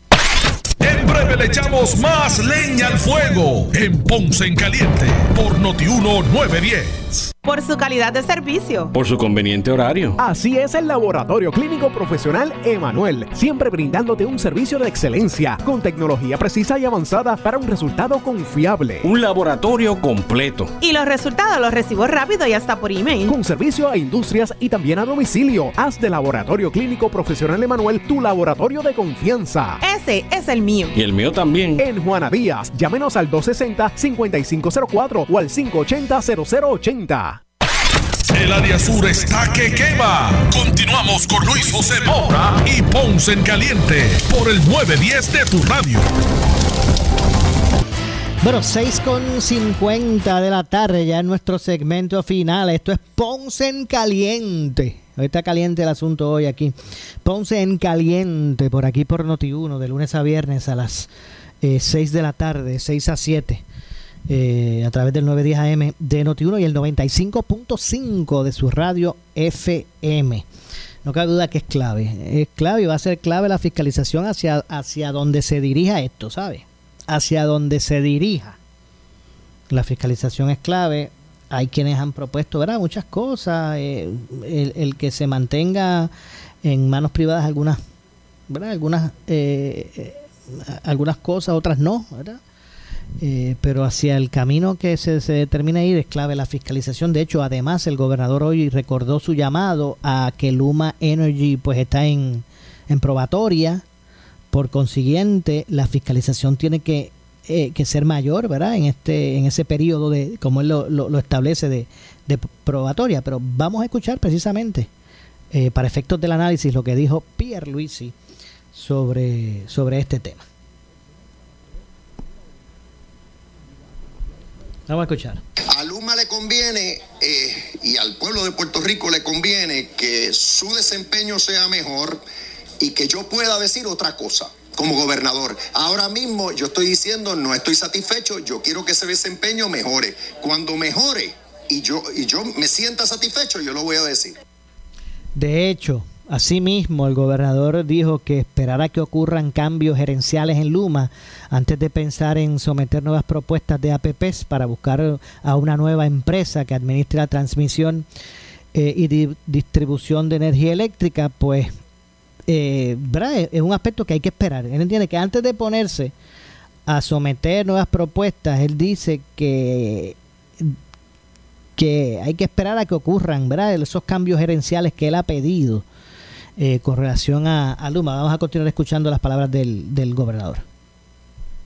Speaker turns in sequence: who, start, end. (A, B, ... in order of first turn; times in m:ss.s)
0:00.8-0:07.3 A
0:07.4-0:08.9 B
0:08.9-0:10.2 C
0:10.2-0:19.1 D
0:19.0-0:20.7 C
0:20.8-0:23.3 B
0:23.3-0:29.8 D
0:29.8-0:30.9 B
0:31.0-0:31.8 C
0:31.8-0:37.4 D
0:38.3-0:46.1 A
0:48.4-1:01.1 E
1:01.6-1:03.6 E
1:04.3-1:10.4 E
1:11.0-1:18.6 E
1:19.7-1:26.1 E
1:26.6-1:27.8 E
1:28.5-1:32.4 E
1:33.2-1:43.8 E
1:44.5-1:54.9 E
1:55.5-1:58.1 E
1:58.7-2:00.4 E
2:04.9-2:05.4 E
2:05.7-2:12.2 F
2:12.8-2:24.4 F
2:25.4-2:38.1 E
2:38.7-2:41.7 E
2:42.5-2:46.1 E
2:46.9-2:50.8 E
2:51.8-2:55.8 E
2:56.6-3:00.6 E